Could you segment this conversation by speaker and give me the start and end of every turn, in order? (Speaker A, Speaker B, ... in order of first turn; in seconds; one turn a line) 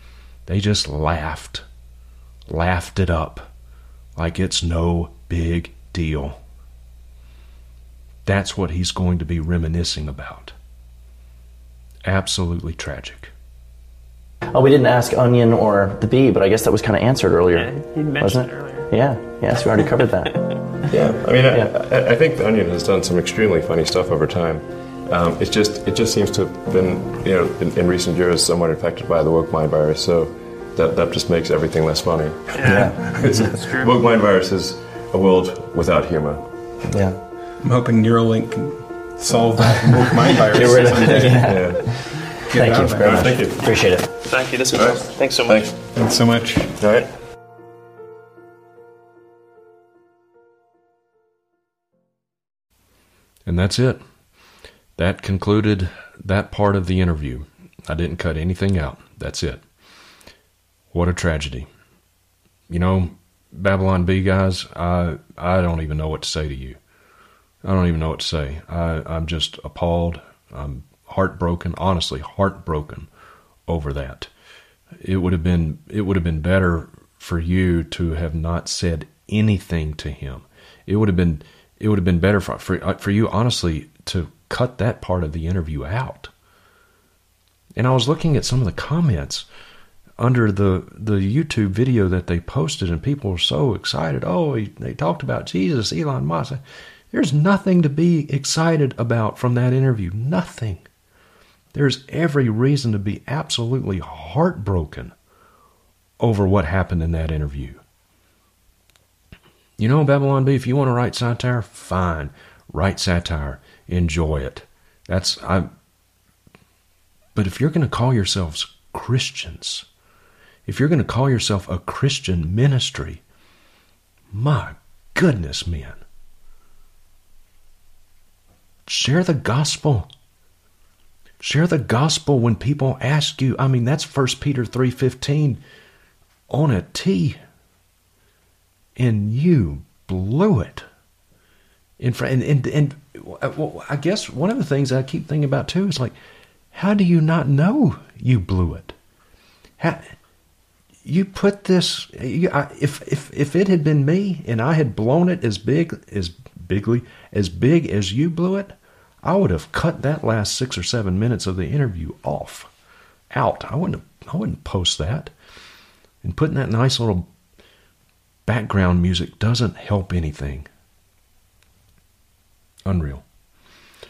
Speaker A: 0.5-1.6
Speaker A: 2.5-3.5
Speaker A: 4.2-6.4
Speaker A: 8.2-10.5
Speaker A: 12.0-13.3
Speaker B: 14.5-20.9
Speaker C: 17.5-18.9
Speaker D: 20.9-36.4
Speaker C: 32.5-33.9
Speaker B: 32.6-33.0
Speaker B: 36.8-37.2
Speaker E: 37.6-41.7
Speaker B: 40.5-44.1
Speaker D: 40.6-41.9
Speaker E: 42.5-43.4
Speaker D: 43.0-43.6
Speaker C: 44.2-45.7
Speaker D: 44.7-45.8
Speaker E: 45.9-46.7
Speaker D: 46.8-47.1
Speaker A: 53.5-54.0
Speaker A: 55.0-59.6
Speaker A: 60.9-61.7
Speaker A: 62.7-66.8
Speaker A: 67.6-73.1
Speaker A: 73.7-74.3
Speaker A: 75.0-86.3
Speaker A: 87.8-89.5
Speaker A: 90.2-96.6
Speaker A: 97.1-100.8
Speaker A: 101.7-105.1
Speaker A: 106.2-107.8
Speaker A: 109.8-115.7
Speaker A: 117.3-119.8
Speaker A: 120.7-123.2
Speaker A: 124.3-126.0
Speaker A: 128.9-130.1
Speaker A: 131.4-135.6
Speaker A: 136.5-137.4
Speaker A: 139.0-140.8
Speaker A: 142.0-146.1
Speaker A: 146.7-148.9
Speaker A: 149.8-150.1
Speaker A: 151.0-162.7
Speaker A: 163.3-165.3
Speaker A: 166.2-167.3
Speaker A: 168.5-170.7
Speaker A: 172.8-173.2